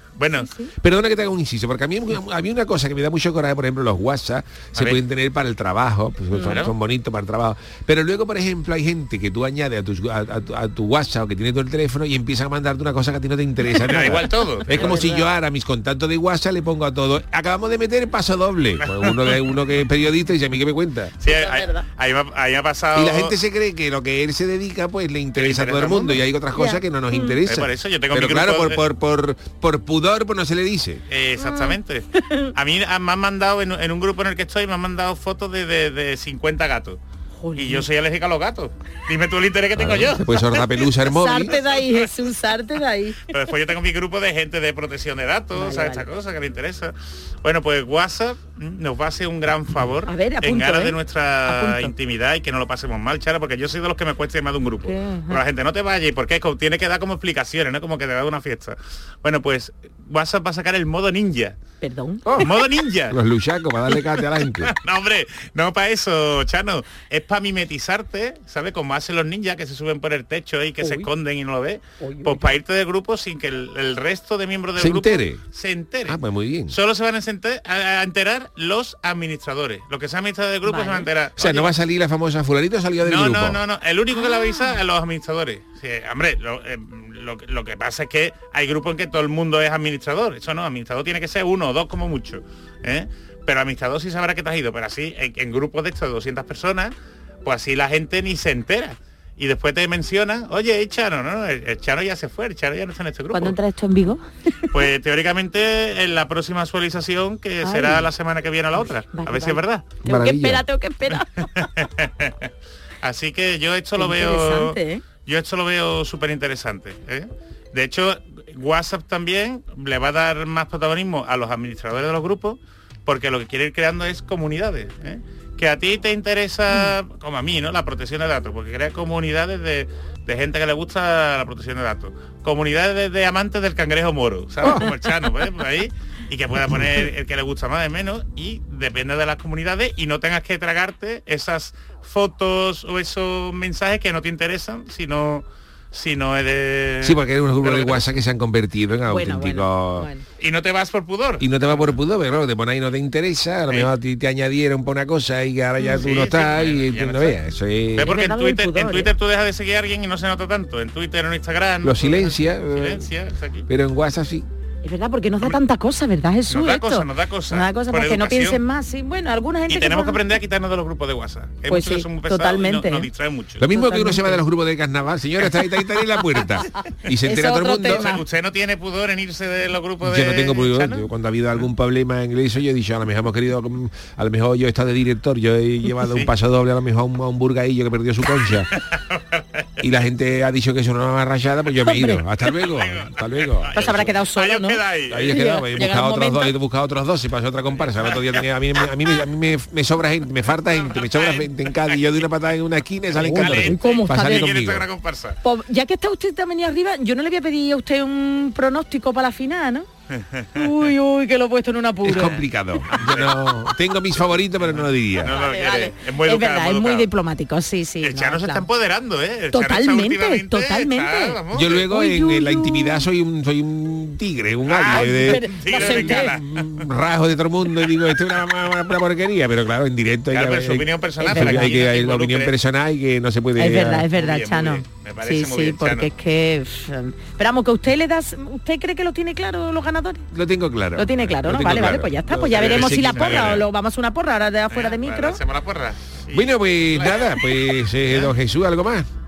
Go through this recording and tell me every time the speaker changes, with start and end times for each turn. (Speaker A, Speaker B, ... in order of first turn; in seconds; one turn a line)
Speaker A: 0.2-0.5
Speaker B: 0.4-0.7
Speaker C: 0.8-21.1
Speaker A: 4.7-5.0
Speaker B: 6.3-6.6
Speaker A: 6.4-6.7
Speaker A: 13.8-14.9
Speaker B: 14.7-15.3
Speaker A: 18.8-19.3
Speaker A: 21.2-23.3
Speaker B: 21.2-21.8
Speaker C: 22.9-31.0
Speaker A: 25.4-26.2
Speaker B: 26.5-27.4
Speaker A: 27.4-28.8
Speaker A: 31.1-37.0
Speaker B: 31.4-32.5
Speaker B: 37.4-37.9
Speaker A: 37.5-40.6
Speaker C: 39.8-41.5
Speaker B: 41.0-43.2
Speaker A: 41.5-42.0
Speaker A: 43.3-61.6
Speaker B: 45.5-46.0
Speaker B: 50.0-51.9
Speaker B: 54.8-55.4
Speaker B: 61.8-62.5
Speaker C: 62.2-62.5
Speaker A: 62.4-63.2
Speaker C: 63.1-64.7
Speaker A: 64.7-76.2
Speaker B: 70.8-71.1
Speaker B: 72.0-72.6
Speaker C: 74.8-75.4
Speaker C: 76.1-76.8
Speaker A: 76.7-81.7
Speaker B: 80.7-81.1
Speaker C: 81.4-83.6
Speaker A: 83.0-103.5
Speaker B: 84.2-84.7
Speaker B: 103.3-104.2
Speaker A: 104.7-109.9
Speaker B: 107.6-108.1
Speaker B: 109.1-111.5
Speaker C: 110.0-110.6
Speaker A: 111.4-112.5
Speaker A: 113.0-148.1
Speaker B: 114.0-115.0
Speaker C: 147.0-150.1
Speaker B: 149.1-150.2
Speaker A: 150.4-152.0
Speaker C: 151.4-158.1
Speaker B: 155.8-156.1
Speaker A: 156.0-157.4
Speaker A: 157.9-163.7
Speaker B: 158.0-159.1
Speaker C: 161.8-163.1
Speaker C: 163.7-164.5
Speaker B: 164.8-170.2
Speaker A: 166.5-168.6
Speaker A: 169.7-173.7
Speaker B: 171.7-173.1
Speaker C: 173.6-178.1
Speaker B: 173.7-174.4
Speaker B: 177.2-178.2
Speaker A: 177.9-181.1
Speaker C: 180.0-188.7
Speaker A: 188.7-189.6
Speaker C: 189.8-193.9
Speaker B: 191.8-192.2
Speaker A: 192.6-195.3
Speaker B: 193.7-196.5
Speaker C: 195.1-204.9
Speaker A: 200.9-202.0
Speaker A: 203.1-205.4
Speaker B: 203.2-204.5
Speaker B: 205.4-209.9
Speaker A: 210.1-210.7
Speaker B: 210.5-212.4
Speaker C: 212.0-215.3
Speaker A: 212.9-213.3
Speaker A: 214.7-217.1
Speaker B: 215.2-218.7
Speaker A: 218.0-221.8
Speaker B: 219.5-223.1
Speaker C: 221.5-234.1
Speaker A: 224.7-226.9
Speaker B: 224.9-226.3
Speaker A: 230.3-232.6
Speaker B: 231.2-231.6
Speaker B: 233.6-240.3
Speaker A: 234.1-236.1
Speaker C: 240.3-243.6
Speaker B: 240.9-245.4
Speaker A: 242.5-243.6
Speaker A: 244.7-248.3
Speaker C: 246.3-249.1